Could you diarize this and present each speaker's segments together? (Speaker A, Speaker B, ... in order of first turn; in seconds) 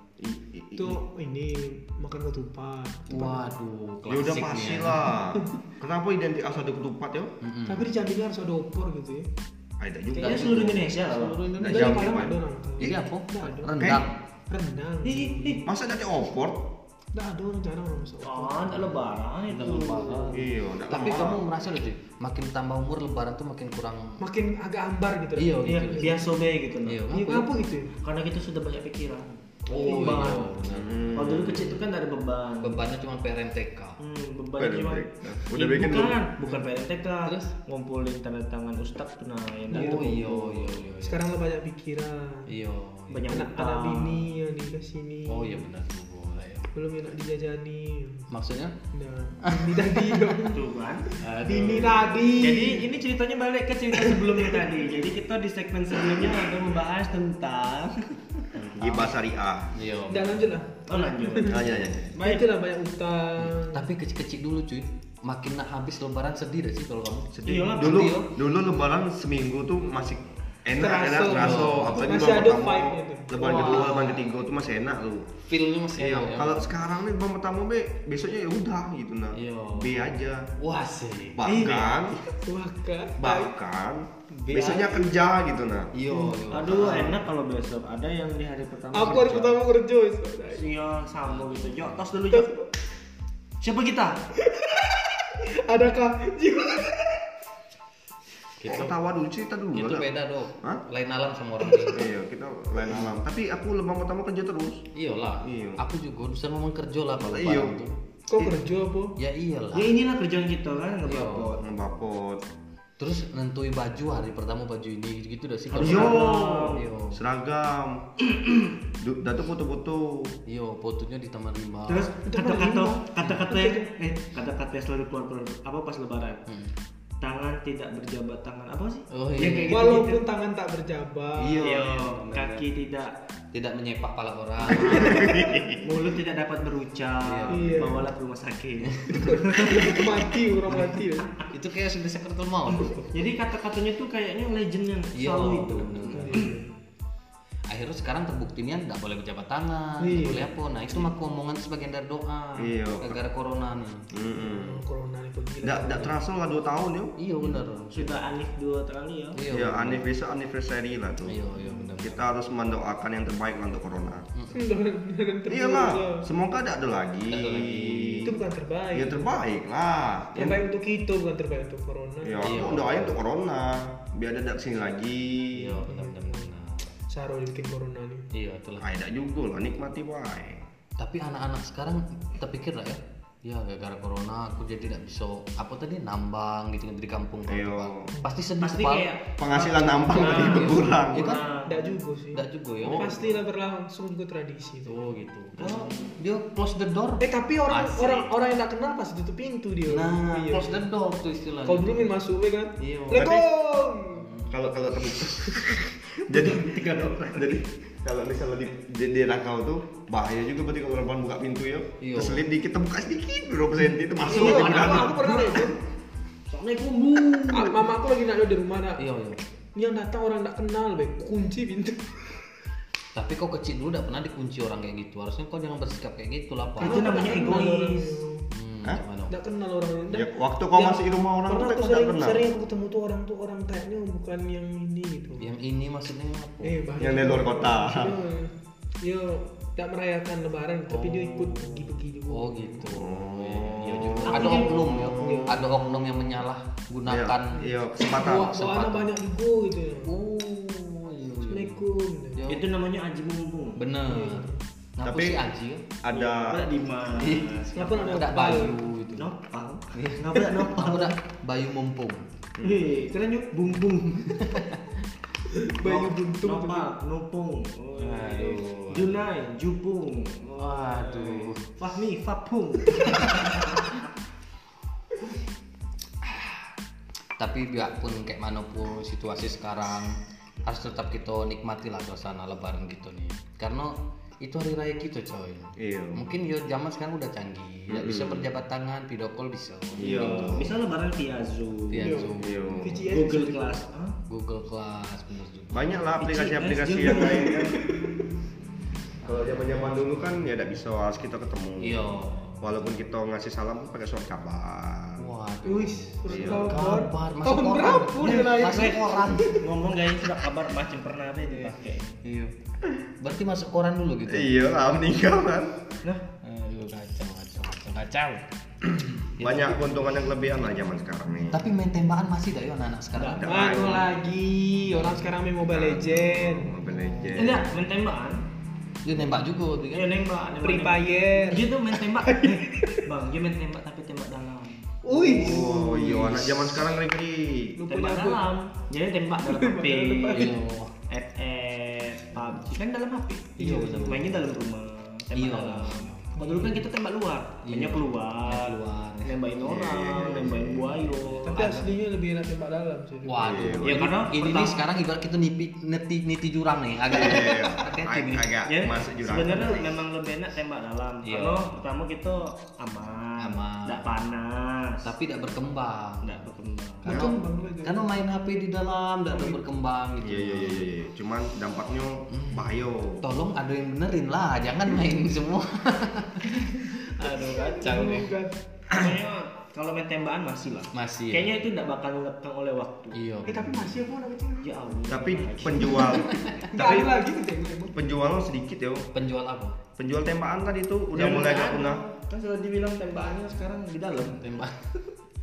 Speaker A: 0.2-1.0, 4.1-7.3, 9.8-10.9, 11.6-12.3, 13.8-14.1, 15.6-16.7, 20.3-21.5, 30.6-31.8, 34.6-36.2, 58.8-59.7, 61.4-62.1, 67.5-75.3, 76.0-80.5, 81.3-82.2, 83.2-85.9, 86.7-87.2, 98.6-100.1, 101.9-104.8, 105.4-105.8, 107.2-107.8, 111.6-112.4, 115.8-116.4, 117.1-118.2, 119.0-120.3, 134.7-135.8, 152.6-153.2, 154.1-154.8, 155.6-157.1, 159.5-161.4, 162.0-164.2, 165.5-168.3, 168.9-170.6, 172.2-175.9, 178.8-180.6, 187.5-188.1, 189.4-191.4, 192.8-193.2, 203.1-203.4, 204.5-215.2, 230.1-232.5, 237.0-238.2, 242.9-245.8, 247.1-248.6, 255.0-255.4, 256.0-256.7, 262.6-262.9, 285.8-286.2, 287.9-288.5, 290.0-290.7, 292.4-293.1, 295.7-297.8, 299.2-305.3, 306.3-306.8, 314.3-315.8, 319.4-321.6, 323.3-324.1, 325.6-327.7, 335.1-337.8, 349.6-351.0, 353.4-354.1, 357.1-359.9, 370.2-373.2, 385.1-387.2, 387.9-389.1, 390.0-392.0
Speaker B: 0.7-3.5, 7.7-9.3, 11.7-13.8, 14.5-15.6, 17.1-18.9, 24.2-26.2, 27.1-27.9, 29.8-30.5, 39.7-40.1, 41.0-42.5, 43.3-45.6, 46.7-48.3, 48.9-52.9, 54.0-54.7, 60.1-61.6, 62.1-63.8, 70.8-73.9, 82.4-83.5, 86.1-86.4, 88.9-90.7, 92.3-92.6, 94.4-97.2, 108.3-109.2, 122.2-123.9, 129.7-131.7, 137.5-138.1, 139.2-141.3, 146.1-146.7, 150.0-150.5, 154.3-156.2, 164.5-166.2, 168.2-169.3, 170.3-172.6, 175.9-176.5, 177.1-178.2, 191.6-195.1, 197.2-200.8, 201.6-204.3, 214.3-215.8, 217.5-219.0, 219.7-222.3, 226.8-228.4, 229.3-235.4, 236.6-242.9, 245.1-245.7, 248.0-250.2, 251.5-252.5, 254.1-254.6, 257.7-258.8, 265.5-266.9, 291.9-293.8, 297.2-298.3, 305.6-309.6, 323.4-326.7, 330.6-333.0, 335.0-336.1, 337.8-338.5, 339.4-340.5, 343.6-344.3, 346.4-346.9, 351.4-353.7, 367.1-368.0, 369.3-369.6, 376.8-378.5, 383.4-384.7, 386.7-387.9
Speaker C: 3.1-5.2, 7.4-7.9, 10.2-14.1, 19.5-24.2, 25.4-26.2, 26.8-27.5, 29.7-31.4, 32.6-34.0, 37.2-37.5, 39.7-41.2, 42.5-43.3, 45.3-46.7, 48.3-48.7, 49.4-50.3, 58.5-59.1, 59.7-60.5, 63.4-68.3, 71.3-72.0, 73.5-74.3, 75.5-76.7, 79.3-81.4, 84.5-84.9, 85.9-87.2, 91.3-92.0, 98.6-99.0, 99.7-102.1, 102.9-103.2, 104.9-107.9, 109.2-109.9, 111.0-111.6, 113.0-117.2, 120.5-122.1, 123.2-123.5, 126.5-126.7, 129.1-129.9, 131.4-132.6, 133.5-135.5, 137.2-137.9, 138.8-139.8, 141.5-143.1, 145.1-146.5, 147.7-154.1, 157.2-158.2, 159.3-160.1, 161.3-162.2, 167.3-168.3, 172.4-173.2, 175.5-176.9, 178.3-178.8, 181.0-191.4, 192.3-193.2, 194.9-198.3, 199.9-202.1, 202.8-203.3, 204.2-204.6, 212.0-212.4, 219.0-219.4, 223.1-227.5, 228.5-229.3, 235.4-236.8, 240.9-247.7, 248.3-249.1, 250.1-251.8, 252.3-252.7, 253.8-255.8, 257.1-259.3, 259.9-262.2, 264.4-264.8, 268.0-269.2, 270.6-271.6, 276.2-276.6, 277.4-290.7, 291.9-292.8, 294.3-296.1, 299.2-299.9, 301.8-302.8, 305.2-309.6, 312.2-312.5, 313.2-314.6, 316.4-320.2, 321.5-323.8, 324.9-325.3, 326.8-327.7, 329.0-330.1, 335.4-336.9, 340.3-340.9, 343.6-344.5, 345.3-346.2, 347.6-349.3, 351.1-351.9, 353.2-358.5, 361.2-361.8, 363.4-364.1, 365.0-366.4, 367.0-370.9, 372.3-376.9, 377.8-378.3, 380.9-381.6, 383.1-383.9, 386.0-386.6, 389.1-389.8, 394.2-394.8
Speaker D: 10.2-11.4, 15.0-15.7, 18.2-20.4, 25.6-27.0, 28.0-30.6, 31.1-32.8, 34.0-40.8, 43.1-44.2, 50.5-58.5, 60.9-61.6, 62.1-62.5, 67.4-68.3, 73.5-74.1, 81.4-82.2, 84.5-84.9, 86.5-89.6, 90.5-92.5, 93.6-94.2, 109.7-111.7, 115.7-116.8, 121.9-126.5, 127.2-130.2, 131.6-133.1, 134.6-140.2, 143.1-146.5, 157.9-159.4, 188.6-191.9, 195.6-196.1, 206.3-207.6, 214.2-215.7, 216.5-217.9, 226.8-228.2, 244.2-245.1, 252.5-253.8, 256.1-258.0, 259.1-261.1, 262.6-264.4, 265.8-274.0, 290.0-292.3, 293.1-294.2, 296.2-297.8, 308.2-312.1, 323.1-324.0, 327.3-328.4, 329.9-334.9, 337.9-340.6, 341.1-351.8, 353.8-354.9, 358.6-365.1, 366.2-367.2, 377.1-378.2, 378.9-383.2, 384.6-386.2, 391.1-394.4